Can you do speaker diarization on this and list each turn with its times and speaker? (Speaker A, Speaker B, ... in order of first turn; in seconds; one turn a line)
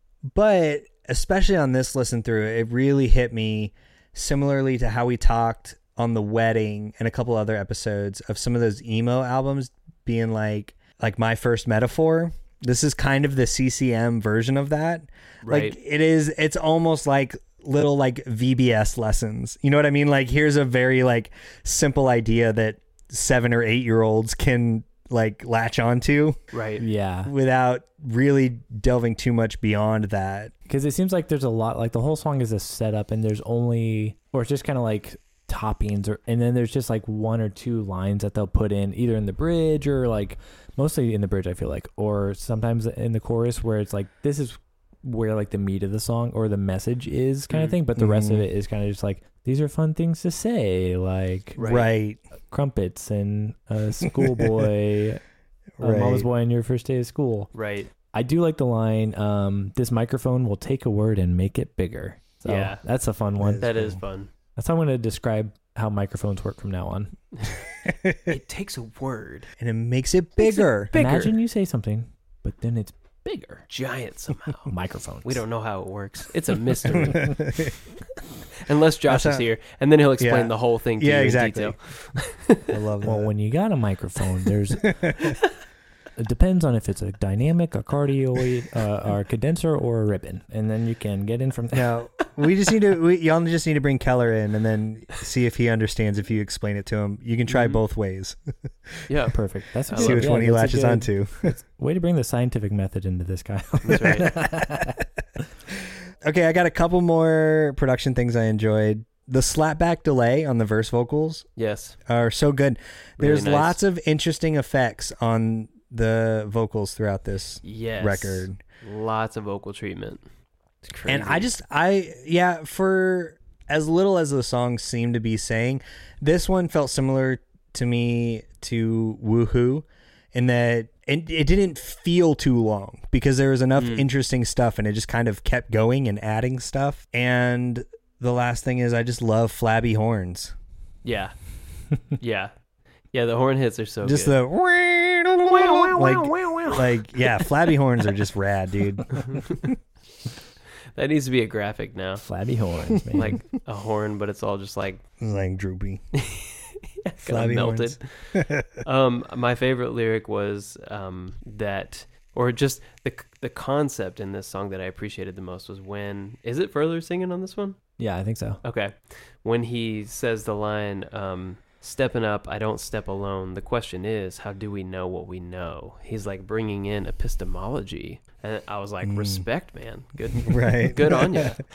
Speaker A: 0.3-26.4
Speaker B: 15.4-15.8
Speaker B: 26.5-26.8
Speaker C: 26.8-27.3
Speaker A: 27.2-30.5
Speaker C: 30.7-51.6
Speaker B: 47.5-47.8
Speaker A: 48.0-48.5
Speaker B: 51.6-51.9
Speaker A: 51.6-52.2
Speaker C: 52.5-55.2
Speaker A: 54.0-54.5
Speaker A: 55.8-56.3
Speaker C: 55.8-57.5
Speaker B: 57.5-57.9
Speaker C: 58.1-63.7
Speaker B: 62.4-62.8
Speaker A: 63.4-64.0
Speaker B: 63.6-64.3
Speaker C: 64.5-67.1
Speaker A: 68.0-68.3
Speaker B: 68.3-69.5
Speaker A: 69.6-70.9
Speaker B: 70.4-71.3
Speaker C: 70.9-73.6
Speaker B: 73.7-74.7
Speaker C: 74.7-75.4
Speaker B: 75.2-77.3
Speaker A: 76.8-77.7
Speaker B: 78.6-82.7
Speaker A: 79.1-79.4
Speaker A: 80.2-81.8
Speaker A: 82.7-83.3
Speaker C: 83.0-85.2
Speaker A: 84.8-85.3
Speaker C: 86.2-91.9
Speaker A: 91.7-98.4
Speaker B: 97.5-97.8
Speaker B: 99.1-99.3
Speaker C: 99.3-105.0
Speaker B: 99.9-100.2
Speaker A: 100.0-101.5
Speaker B: 103.8-104.3
Speaker A: 106.2-111.5
Speaker B: 111.6-112.0
Speaker A: 112.1-118.6
Speaker B: 113.2-113.8
Speaker B: 117.6-120.2
Speaker B: 120.8-121.5
Speaker A: 121.1-140.5
Speaker B: 133.8-134.1
Speaker B: 141.0-141.3
Speaker B: 142.2-142.5
Speaker B: 143.1-144.3
Speaker A: 144.0-149.6
Speaker B: 145.5-147.5
Speaker B: 149.1-149.7
Speaker B: 150.9-152.2
Speaker C: 152.2-153.4
Speaker B: 153.1-155.0
Speaker A: 155.2-156.0
Speaker B: 156.2-158.0
Speaker A: 157.2-158.7
Speaker B: 158.8-167.8
Speaker C: 168.0-168.6
Speaker B: 168.6-181.6
Speaker A: 179.0-179.4
Speaker A: 180.4-181.5